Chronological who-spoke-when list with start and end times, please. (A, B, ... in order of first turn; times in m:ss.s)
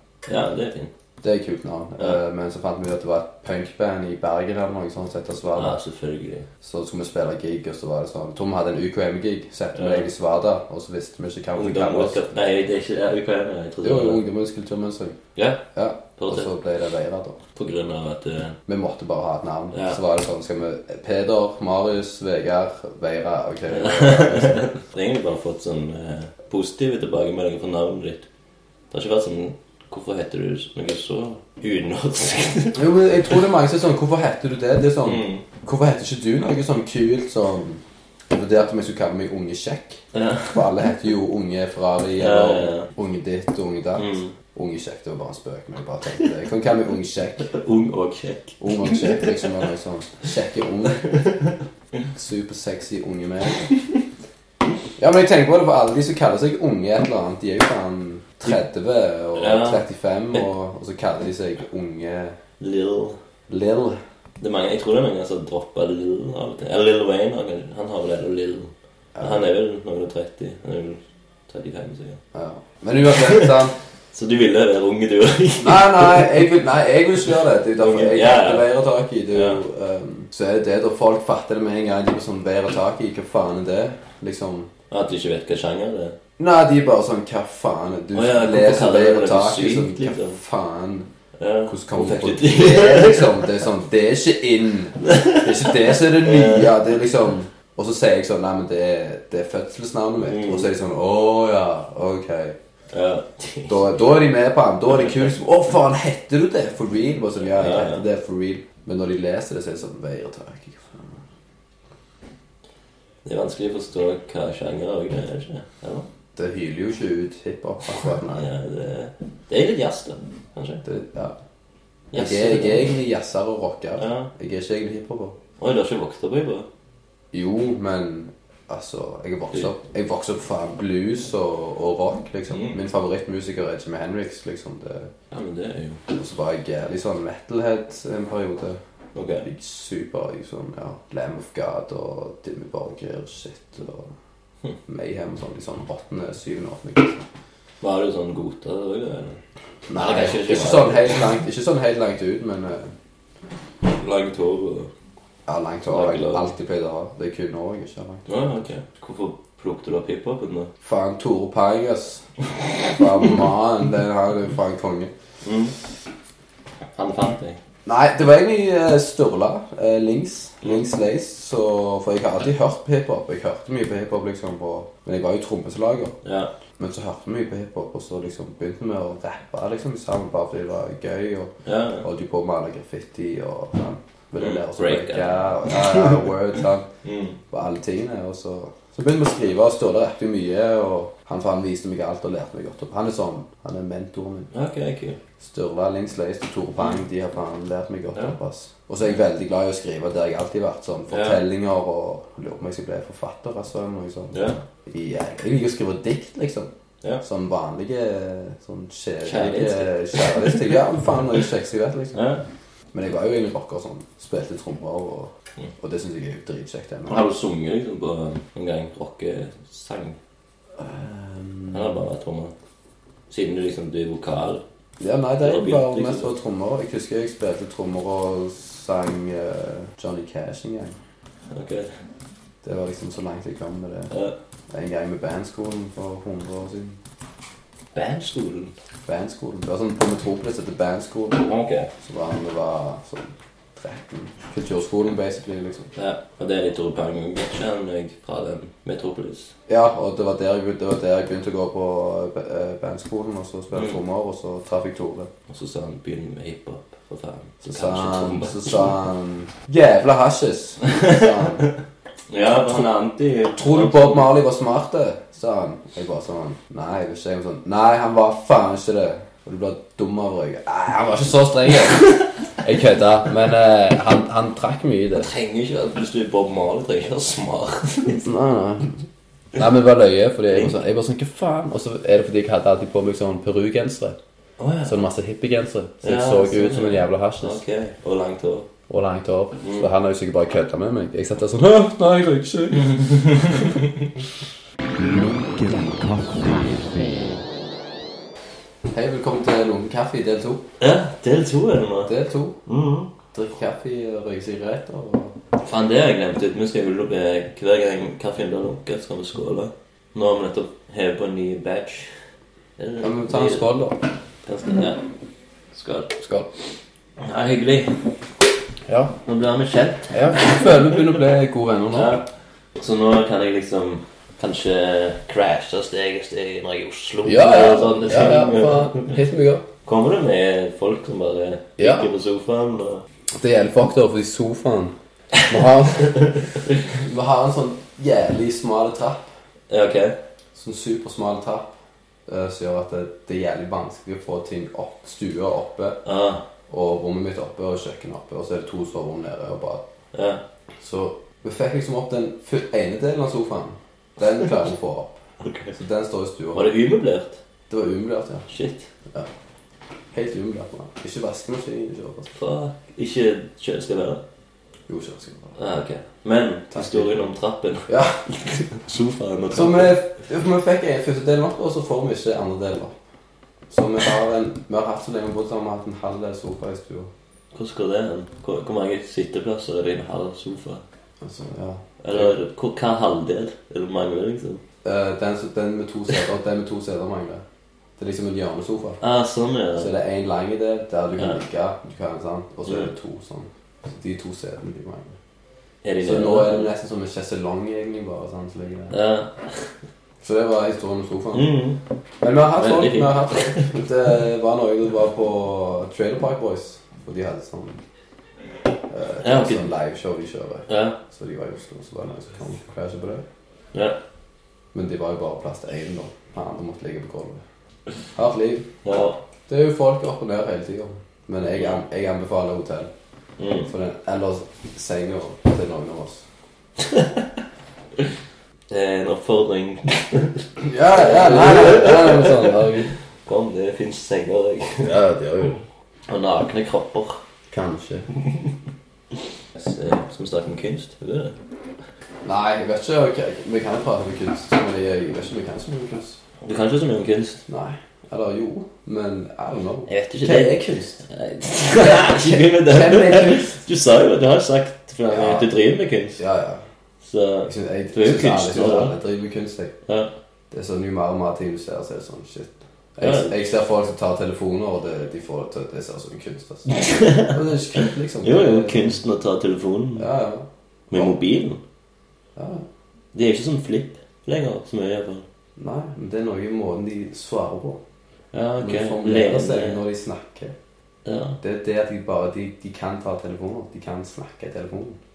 0:00.3-0:00.9 A
0:01.2-0:05.8 B
0:05.6-0:06.5 A
0:06.6-0:12.2 B
0:09.7-0:10.0 A
0:11.5-0:14.2 A
0:13.8-0:15.2 B
0:15.4-0:15.6 A
0:15.7-0:17.4 B
0:16.2-0:16.5 A
0:17.6-0:18.6 A
0:18.7-0:24.6 B
0:19.7-0:20.0 A
0:23.7-0:28.3 A
0:28.9-0:33.3 A
0:32.7-0:47.5 B
0:35.0-0:35.4 A
0:40.1-0:40.6 A
0:42.2-0:42.9 A
0:44.0-0:44.3 A
0:47.5-0:49.3 A
0:48.6-0:51.0 B
0:51.1-0:51.4 A
0:52.1-0:53.7 B
0:55.0-1:02.4 B
0:59.4-1:00.5 A
1:02.6-1:03.2 A
1:03.5-1:04.0 B
1:04.4-1:12.2 A
1:09.2-1:09.4 B
1:12.3-1:13.8 B
1:13.1-1:13.6 A
1:14.1-1:16.3 A
1:15.6-1:24.7 B
1:17.8-1:18.7 A
1:19.3-1:19.6 A
1:24.9-1:26.2 A
1:26.4-1:31.1 B
1:28.1-1:30.4 A
1:31.4-1:33.4 A
1:31.7-1:42.6 B
1:35.0-1:36.7 A
1:40.2-1:40.7 A
1:42.9-1:43.8 A
1:43.7-1:51.2 B
1:44.9-1:45.2 A
1:47.6-1:48.0 A
1:53.2-1:56.1 A
1:56.4-1:58.5 B
1:58.3-2:00.8 A
2:00.8-2:01.4 B
2:02.1-2:02.9 A
2:02.1-2:05.4 B
2:04.0-2:04.3 A
2:05.6-2:06.7 A
2:07.3-2:15.1 B
2:12.5-2:12.8 A
2:15.3-2:16.0 A
2:16.1-2:18.8 B
2:19.1-2:19.5 A
2:19.4-2:24.1 B
2:24.9-2:27.2 B
2:27.8-2:29.4 A
2:29.9-2:32.9 B
2:29.9-2:31.2 A
2:33.9-2:34.9 A
2:35.5-2:38.3 B
2:35.9-2:36.5 A
2:38.3-2:40.7 A
2:40.8-2:42.3 B
2:42.9-2:45.1 B
2:45.4-2:45.7 A
2:46.9-2:47.6 A
2:47.9-2:56.2 B
2:56.2-2:56.5 A
2:56.8-3:06.9 B
3:01.6-3:02.0 A
3:04.4-3:06.2 A
3:07.0-3:07.4 A
3:07.5-3:14.5 B
3:14.5-3:15.2 A
3:15.4-3:26.7 B
3:21.1-3:21.4 A
3:24.3-3:24.6 A
3:27.2-3:32.2 B
3:29.2-3:30.8 A
3:32.1-3:32.4 A
3:32.9-3:37.2 B
3:37.1-3:40.2 A
3:40.8-3:41.9 B
3:41.7-3:42.5 A
3:43.3-3:44.6 A
3:45.0-3:51.0 B
3:45.4-3:46.3 A
3:51.5-3:51.9 A
3:52.6-3:54.1 B
3:54.1-3:54.4 A
3:54.7-3:57.0 B
3:57.9-3:58.7 A
3:59.0-4:01.4 B
4:01.3-4:01.9 A
4:02.0-4:05.9 B
4:05.9-4:09.5 A
4:09.7-4:15.3 B
4:15.5-4:18.9 A
4:17.6-4:21.7 B
4:20.9-4:21.6 A
4:22.3-4:24.3 A
4:23.6-4:35.3 B
4:35.1-4:38.3 A
4:38.2-4:38.9 B
4:39.5-4:44.2 B
4:44.6-4:45.0 A
4:44.8-4:47.6 B
4:46.0-4:48.7 A
4:48.9-4:53.8 B
4:49.6-4:49.9 A
4:52.9-4:53.6 A
4:54.9-4:57.4 C
4:58.9-5:00.6 B
5:00.8-5:02.1 A
5:02.0-5:02.6 B
5:02.6-5:03.1 A
5:03.3-5:05.4 B
5:05.6-5:12.1 A
5:12.8-5:13.7 A
5:13.0-5:14.0 B
5:14.4-5:15.0 A
5:15.7-5:16.2 A
5:16.2-5:16.5 B
5:17.2-5:18.0 A
5:18.9-5:19.1 B
5:19.2-5:20.7 A
5:20.1-5:22.2 B
5:21.9-5:22.2 A
5:22.8-5:29.1 A
5:27.2-5:29.6 B
5:29.8-5:33.0 A
5:31.8-5:32.1 B
5:33.3-5:34.9 B
5:35.5-5:39.3 B
5:39.7-5:40.2 A
5:40.5-5:41.7 B
5:42.3-5:46.0 B
5:46.0-5:46.4 A
5:46.7-5:49.8 B
5:50.1-5:50.4 A
5:50.8-5:55.2 B
5:55.4-5:55.8 A
5:55.8-5:56.7 B
5:56.5-5:57.4 A
5:57.7-5:58.5 B
5:58.5-5:58.9 A
6:00.1-6:02.3 B
6:02.3-6:04.2 A
6:04.9-6:05.6 B
6:05.6-6:10.0 A
6:06.7-6:07.2 B
6:07.9-6:08.3 B
6:09.5-6:13.0 B
6:13.7-6:17.1 B
6:17.5-6:20.8 A
6:21.2-6:22.3 B
6:22.0-6:24.6 A
6:24.8-6:27.4 B
6:28.0-6:29.0 B
6:29.0-6:29.9 A
6:29.8-6:35.2 B
6:35.8-6:36.7 A
6:36.0-6:39.0 B
6:38.9-6:39.6 A
6:40.2-6:41.5 B
6:41.3-6:41.8 A
6:42.2-6:47.8 B
6:42.6-6:43.7 A
6:48.9-6:53.2 B
6:49.2-6:49.7 A
6:50.7-6:51.0 A
6:53.7-6:54.0 A
6:54.7-6:57.4 B
6:58.1-6:58.7 B
6:58.8-6:59.2 A
6:59.5-7:02.9 B
7:03.4-7:03.7 A
7:03.6-7:06.2 B
7:06.9-7:07.2 A
7:08.7-7:12.7 A
7:10.6-7:12.9 B
7:13.2-7:14.9 A
7:14.8-7:15.6 B
7:16.1-7:17.2 A
7:17.5-7:18.1 B
7:19.5-7:21.4 A
7:22.2-7:26.2 B
7:26.4-7:27.4 A
7:27.5-7:31.0 B
7:29.9-7:36.2 A
7:31.7-7:33.6 B
7:35.1-7:35.5 B
7:36.2-7:36.6 B
7:37.0-7:38.9 A
7:37.4-7:39.8 B
7:39.8-7:40.1 A
7:40.5-7:49.0 B
7:43.0-7:43.4 A
7:46.7-7:50.1 A
7:50.0-7:51.1 B
7:50.9-7:51.6 A
7:52.4-7:52.6 B
7:53.1-7:55.2 A
7:55.6-7:57.8 B
7:58.3-7:59.8 A
7:58.6-8:00.5 B
8:01.0-8:01.4 A
8:01.4-8:05.0 B